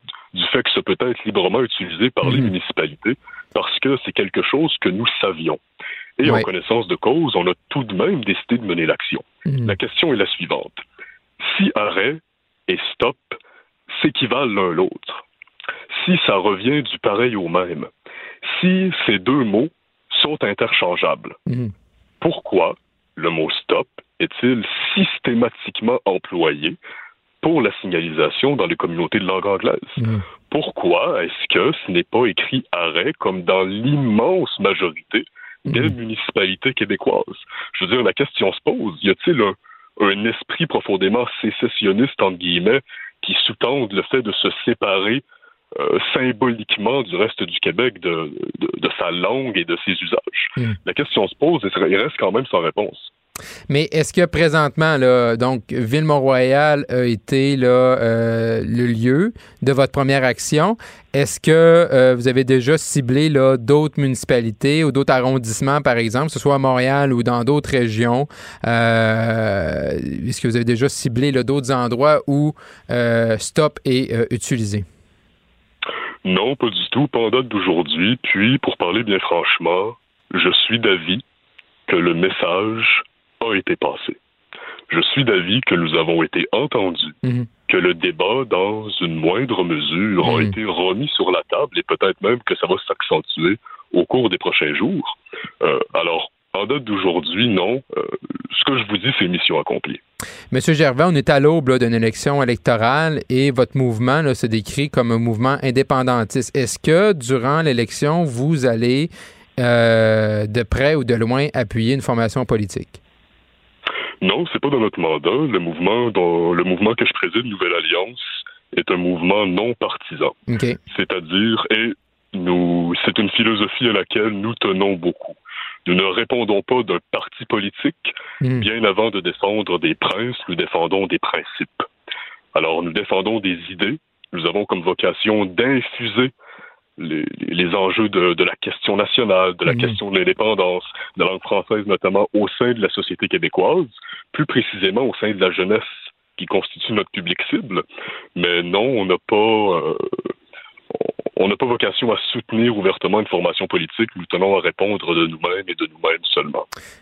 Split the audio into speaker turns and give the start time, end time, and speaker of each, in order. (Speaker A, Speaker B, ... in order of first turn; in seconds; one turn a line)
Speaker A: 0.3-5.6
Speaker B: 2.2-2.5
Speaker A: 6.2-10.8
Speaker B: 9.4-9.8
Speaker A: 11.4-13.4
Speaker A: 13.9-15.2
Speaker A: 15.9-17.9
Speaker A: 18.4-21.4
Speaker B: 21.5-21.7
Speaker A: 22.2-26.8
Speaker A: 27.4-45.2
Speaker B: 30.0-30.2
Speaker B: 35.7-35.9
Speaker A: 45.7-53.1
Speaker B: 53.7-74.8
Speaker A: 76.2-81.2
Speaker A: 81.9-84.2
Speaker A: 84.9-87.2
Speaker A: 87.7-100.0
Speaker B: 90.2-90.5
Speaker B: 100.5-113.0
Speaker A: 114.2-120.3
Speaker B: 120.5-120.8
Speaker A: 120.9-131.9
Speaker B: 128.4-128.7
Speaker A: 132.5-136.3
Speaker A: 137.0-150.1
Speaker B: 139.7-140.0
Speaker A: 151.4-156.7